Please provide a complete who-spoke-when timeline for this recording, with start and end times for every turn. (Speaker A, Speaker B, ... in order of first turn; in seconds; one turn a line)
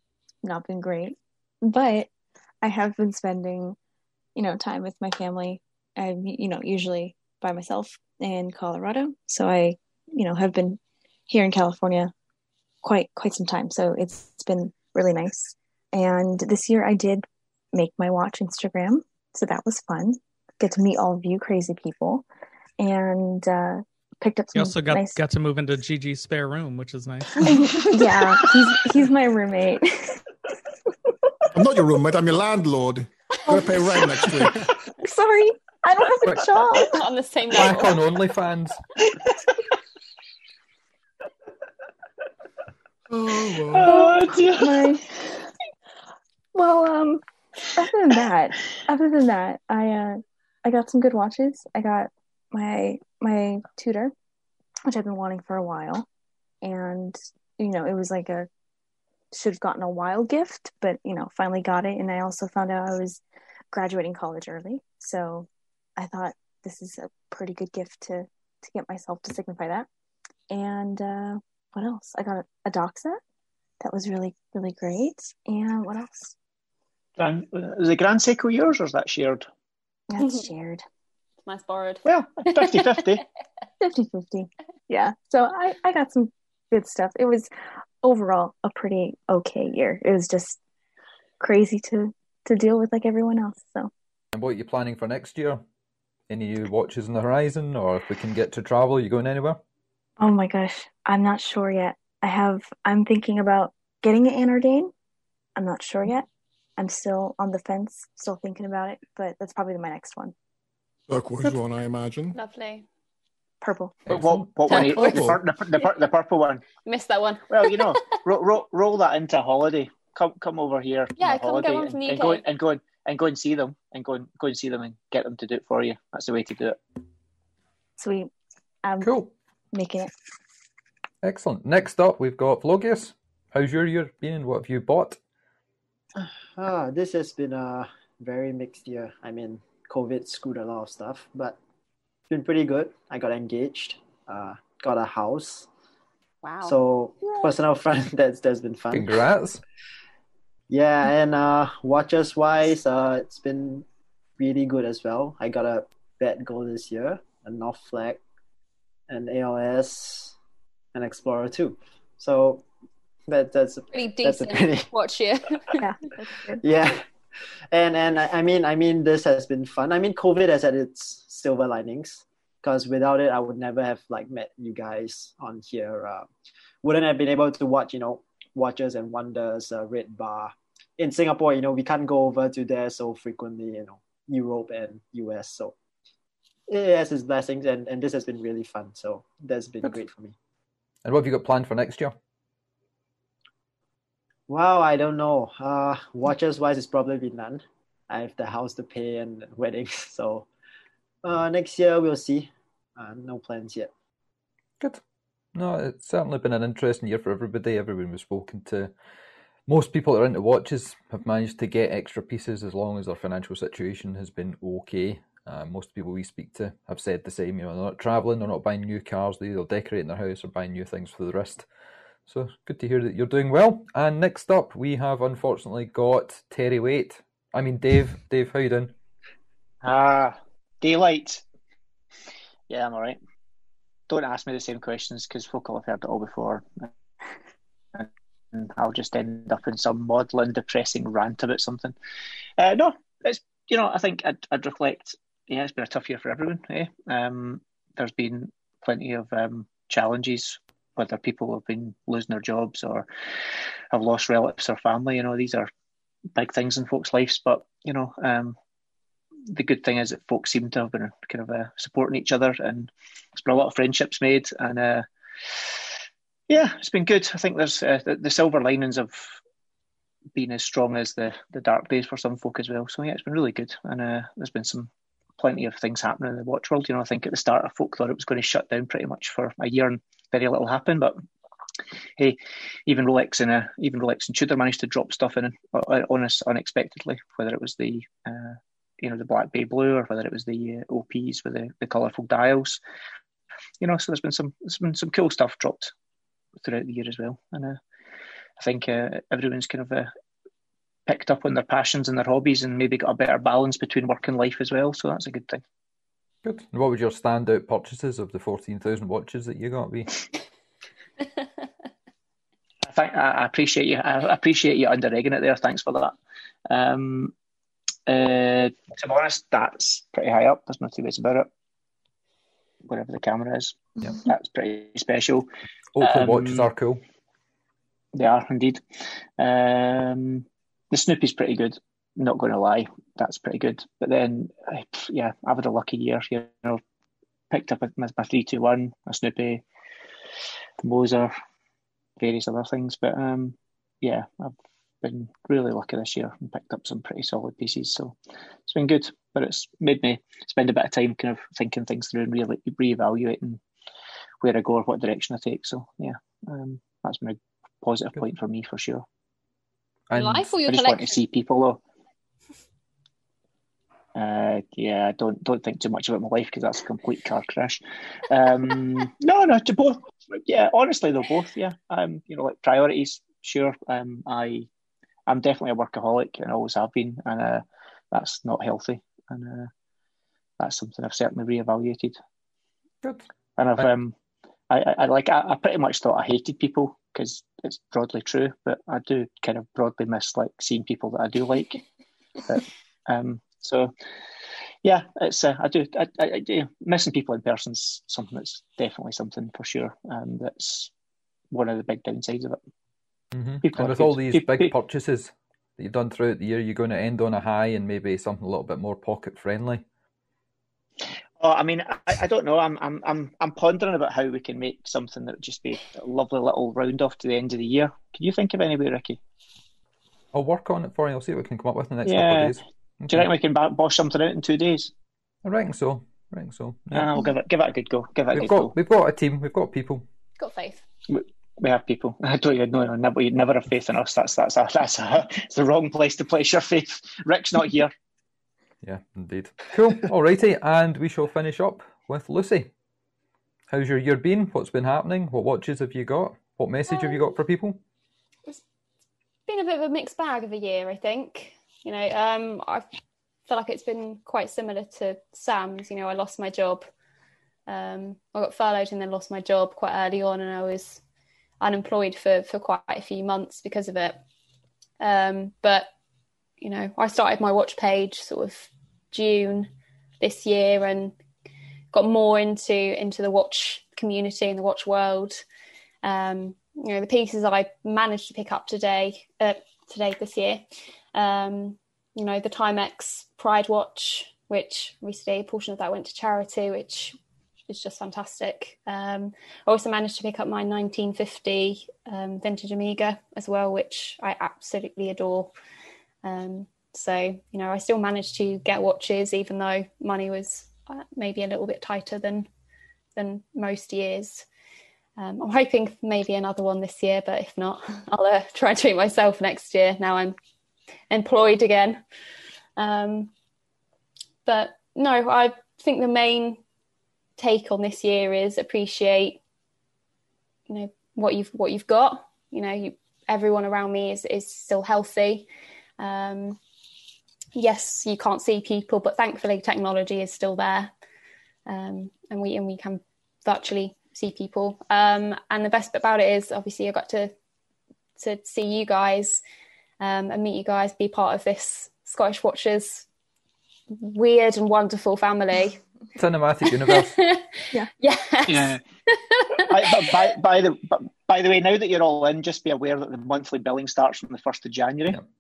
Speaker A: 0.4-2.1
Speaker A: 2.6-3.8
Speaker A: 4.3-12.1
Speaker A: 12.8-22.2
Speaker A: 22.8-25.2
Speaker B: 24.6-27.4
Speaker C: 27.4-28.4
Speaker A: 27.4-30.2
Speaker D: 31.5-34.7
Speaker A: 33.5-34.5
Speaker A: 35.0-37.0
Speaker C: 36.7-38.0
Speaker E: 37.5-38.8
Speaker D: 43.1-44.1
Speaker F: 43.7-44.9
Speaker A: 43.8-45.1
Speaker A: 46.5-47.2
Speaker A: 47.7-54.1
Speaker A: 54.9-56.1
Speaker A: 56.6-58.5
Speaker A: 59.3-69.9
Speaker A: 70.5-73.2
Speaker A: 73.8-76.3
Speaker F: 77.2-79.5
Speaker A: 80.1-80.8
Speaker C: 81.5-83.2
Speaker F: 82.1-83.2
Speaker A: 83.8-87.5
Speaker A: 88.0-90.6
Speaker A: 91.4-93.9
Speaker E: 94.3-95.6
Speaker E: 96.3-99.6
Speaker A: 100.2-104.9
Speaker A: 105.6-106.3
Speaker A: 106.8-110.3
Speaker D: 111.1-112.4
Speaker C: 112.3-112.9
Speaker A: 113.6-114.0
Speaker E: 114.1-114.5
Speaker F: 114.1-116.7
Speaker C: 114.7-115.9
Speaker D: 114.7-115.4
Speaker C: 116.8-118.2
Speaker F: 117.5-126.8
Speaker C: 121.2-122.4
Speaker A: 128.0-128.3
Speaker A: 128.8-129.1
Speaker E: 129.0-129.3
Speaker A: 129.7-130.1
Speaker E: 131.2-135.2
Speaker G: 136.2-141.6
Speaker G: 142.3-145.7
Speaker C: 146.4-147.5
Speaker G: 146.7-149.1
Speaker E: 148.9-149.6
Speaker G: 150.7-153.8
Speaker G: 154.4-158.2
Speaker G: 159.1-160.3
Speaker G: 160.9-162.6
Speaker G: 163.3-164.9
Speaker C: 163.9-165.8
Speaker A: 165.8-166.6
Speaker G: 166.6-167.0
Speaker G: 167.7-176.3
Speaker G: 176.8-185.7
Speaker G: 186.7-190.3
Speaker E: 191.1-192.2
Speaker G: 194.5-200.5
Speaker G: 201.2-203.9
Speaker E: 205.5-208.9
Speaker E: 209.7-221.7
Speaker E: 222.3-228.9
Speaker F: 229.8-231.4
Speaker F: 232.7-233.2
Speaker F: 234.1-236.9
Speaker F: 237.9-241.9
Speaker F: 242.6-253.1
Speaker F: 253.9-255.7
Speaker F: 256.4-258.6
Speaker F: 259.5-265.8
Speaker F: 266.5-269.4
Speaker F: 270.4-281.2
Speaker F: 282.2-292.8
Speaker F: 293.8-295.9
Speaker F: 296.6-297.8
Speaker F: 298.6-300.1
Speaker F: 301.1-305.6
Speaker E: 306.4-310.2
Speaker F: 312.8-316.1
Speaker F: 316.7-317.3
Speaker F: 318.1-321.5
Speaker F: 322.9-325.5
Speaker E: 326.0-327.0
Speaker F: 326.0-326.7
Speaker F: 328.1-328.8
Speaker F: 329.4-336.8
Speaker F: 337.5-339.6
Speaker F: 340.8-341.3
Speaker F: 342.2-353.6
Speaker F: 354.4-359.0
Speaker E: 360.1-360.5
Speaker C: 360.1-361.2
Speaker F: 360.6-361.8
Speaker F: 364.1-374.7
Speaker F: 375.3-379.7
Speaker F: 380.6-382.2
Speaker F: 383.6-384.1
Speaker F: 384.7-391.8
Speaker F: 392.5-393.9
Speaker F: 394.8-400.9
Speaker F: 401.5-402.6
Speaker E: 403.3-409.9
Speaker F: 403.6-404.7
Speaker F: 411.4-419.2
Speaker E: 420.3-423.3
Speaker F: 422.1-422.6
Speaker F: 423.1-424.9
Speaker E: 425.4-427.1
Speaker F: 426.9-428.7
Speaker E: 428.3-430.1
Speaker C: 430.4-430.8
Speaker F: 431.1-437.9
Speaker E: 438.8-442.7
Speaker E: 443.7-447.8
Speaker C: 446.9-447.3
Speaker C: 449.5-452.9
Speaker C: 453.5-456.9
Speaker C: 457.7-461.0
Speaker C: 461.6-464.2
Speaker C: 465.0-465.9
Speaker C: 466.6-471.1
Speaker C: 471.9-475.4
Speaker C: 476.0-487.2
Speaker C: 487.7-495.5
Speaker C: 496.2-502.5
Speaker C: 503.2-504.5
Speaker C: 505.2-510.4
Speaker C: 511.1-512.0
Speaker C: 512.8-513.3
Speaker C: 514.5-516.6
Speaker C: 517.4-519.4
Speaker C: 520.7-525.5
Speaker C: 526.0-526.6
Speaker C: 527.6-530.9
Speaker C: 531.7-537.3
Speaker C: 538.2-539.4
Speaker C: 540.0-543.1
Speaker C: 543.9-545.8
Speaker E: 546.2-547.1
Speaker C: 546.8-550.3
Speaker F: 548.5-548.8
Speaker F: 549.7-555.2